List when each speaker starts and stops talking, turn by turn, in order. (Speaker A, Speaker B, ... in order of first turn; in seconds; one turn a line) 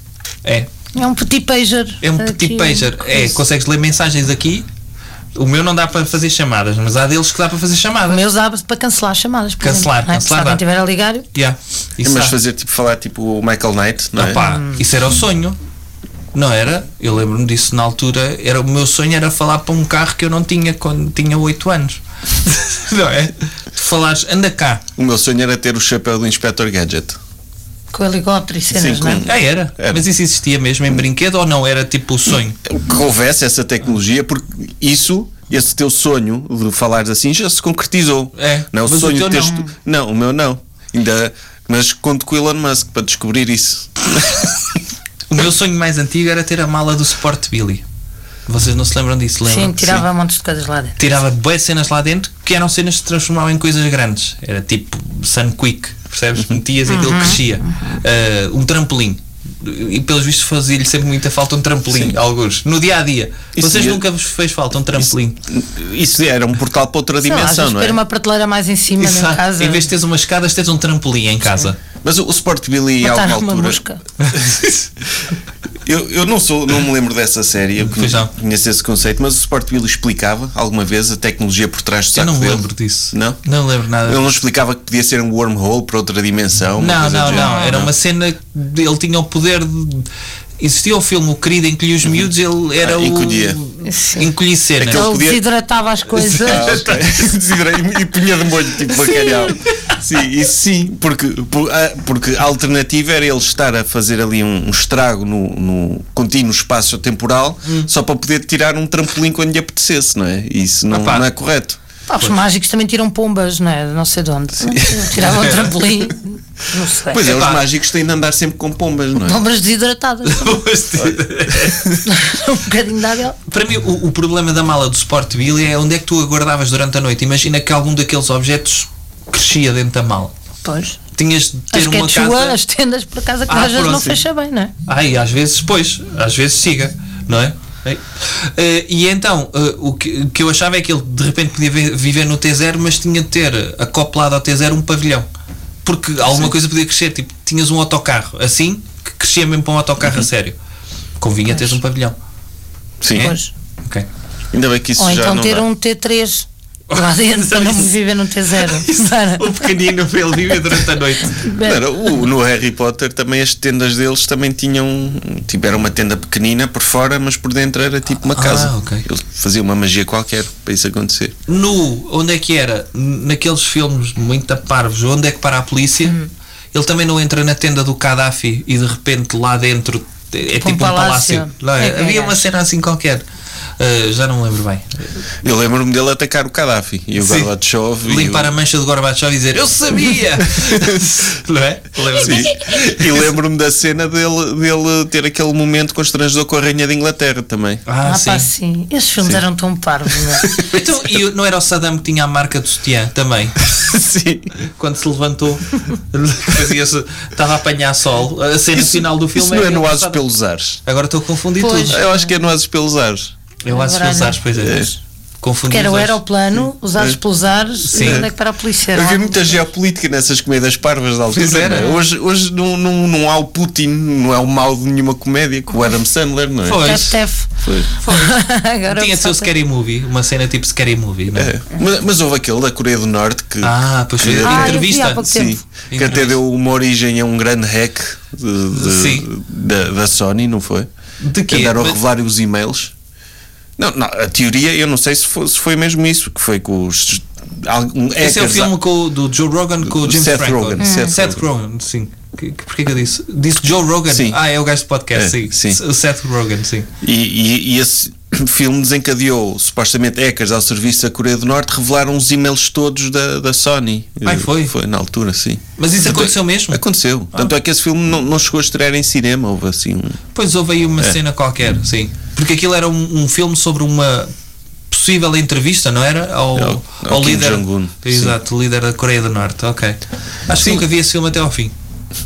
Speaker A: 0.4-0.7
Speaker B: 0.9-3.4
Speaker A: 2.0-4.7
Speaker A: 5.3-8.2
Speaker B: 8.1-11.3
Speaker A: 9.6-10.6
Speaker A: 11.3-12.3
Speaker C: 12.0-14.4
Speaker A: 14.2-15.6
Speaker B: 14.3-14.8
Speaker A: 16.3-24.8
Speaker C: 24.9-27.2
Speaker B: 27.9-29.2
Speaker C: 28.7-30.0
Speaker A: 29.2-32.6
Speaker C: 32.6-44.8
Speaker A: 38.4-39.6
Speaker A: 45.3-47.8
Speaker A: 48.5-50.0
Speaker B: 49.4-51.0
Speaker A: 51.0-65.4
Speaker B: 56.9-58.0
Speaker C: 63.5-64.0
Speaker C: 65.0-68.0
Speaker B: 67.2-69.9
Speaker A: 69.0-71.8
Speaker C: 72.0-73.8
Speaker B: 73.0-74.0
Speaker C: 74.3-74.9
Speaker C: 75.8-83.4
Speaker A: 77.8-78.3
Speaker A: 82.1-84.3
Speaker C: 84.0-87.9
Speaker A: 86.8-95.2
Speaker B: 87.3-87.8
Speaker C: 92.0-93.6
Speaker B: 93.8-94.3
Speaker C: 94.8-95.4
Speaker B: 94.9-96.8
Speaker C: 96.2-111.8
Speaker A: 96.3-97.1
Speaker A: 110.9-111.3
Speaker B: 112.1-117.3
Speaker C: 114.6-114.9
Speaker A: 115.2-115.7
Speaker C: 117.1-119.4
Speaker A: 117.2-117.6
Speaker B: 119.2-120.6
Speaker A: 120.2-122.0
Speaker C: 121.0-122.0
Speaker B: 122.0-123.4
Speaker A: 123.5-130.3
Speaker B: 130.6-131.0
Speaker A: 131.2-132.6
Speaker B: 131.7-134.7
Speaker A: 133.5-134.2
Speaker A: 134.8-145.3
Speaker A: 145.8-150.6
Speaker A: 151.2-152.2
Speaker C: 153.0-153.3
Speaker A: 153.1-154.1
Speaker B: 153.1-153.5
Speaker C: 154.5-155.6
Speaker B: 155.0-159.7
Speaker A: 156.9-157.9
Speaker A: 158.6-161.4
Speaker B: 161.2-161.9
Speaker C: 161.6-171.4
Speaker A: 168.3-169.1
Speaker A: 171.5-176.2
Speaker A: 176.7-183.2
Speaker B: 180.6-182.5
Speaker A: 183.8-185.1
Speaker C: 185.4-188.6
Speaker A: 187.2-187.5
Speaker A: 188.0-193.2
Speaker C: 190.6-190.9
Speaker C: 192.2-197.8
Speaker A: 197.9-198.5
Speaker B: 198.0-200.5
Speaker C: 200.4-200.8
Speaker A: 200.5-203.6
Speaker C: 203.6-204.6
Speaker A: 204.6-210.2
Speaker C: 208.7-210.8
Speaker A: 210.9-212.0
Speaker B: 211.6-212.3
Speaker C: 211.9-213.3
Speaker A: 213.6-214.9
Speaker B: 213.7-214.9
Speaker C: 214.6-214.9
Speaker A: 215.4-216.2
Speaker B: 215.7-219.6
Speaker A: 217.9-218.3
Speaker C: 218.0-218.3
Speaker C: 218.9-227.9
Speaker A: 221.3-221.9
Speaker B: 221.7-222.0
Speaker A: 226.7-227.2
Speaker B: 226.8-227.5
Speaker A: 228.0-231.5
Speaker B: 228.0-229.5
Speaker C: 231.3-240.9
Speaker A: 233.6-236.4
Speaker B: 234.4-235.6
Speaker A: 238.7-239.3
Speaker A: 241.2-242.0
Speaker C: 241.5-242.9
Speaker C: 243.8-248.7
Speaker A: 248.2-256.9
Speaker C: 249.9-251.4
Speaker B: 250.8-251.1
Speaker C: 254.1-254.4
Speaker C: 255.1-255.8
Speaker C: 257.0-270.2
Speaker A: 264.2-264.7
Speaker A: 265.8-266.8
Speaker A: 270.3-274.3
Speaker A: 274.9-281.7
Speaker C: 276.6-278.3
Speaker C: 280.5-280.9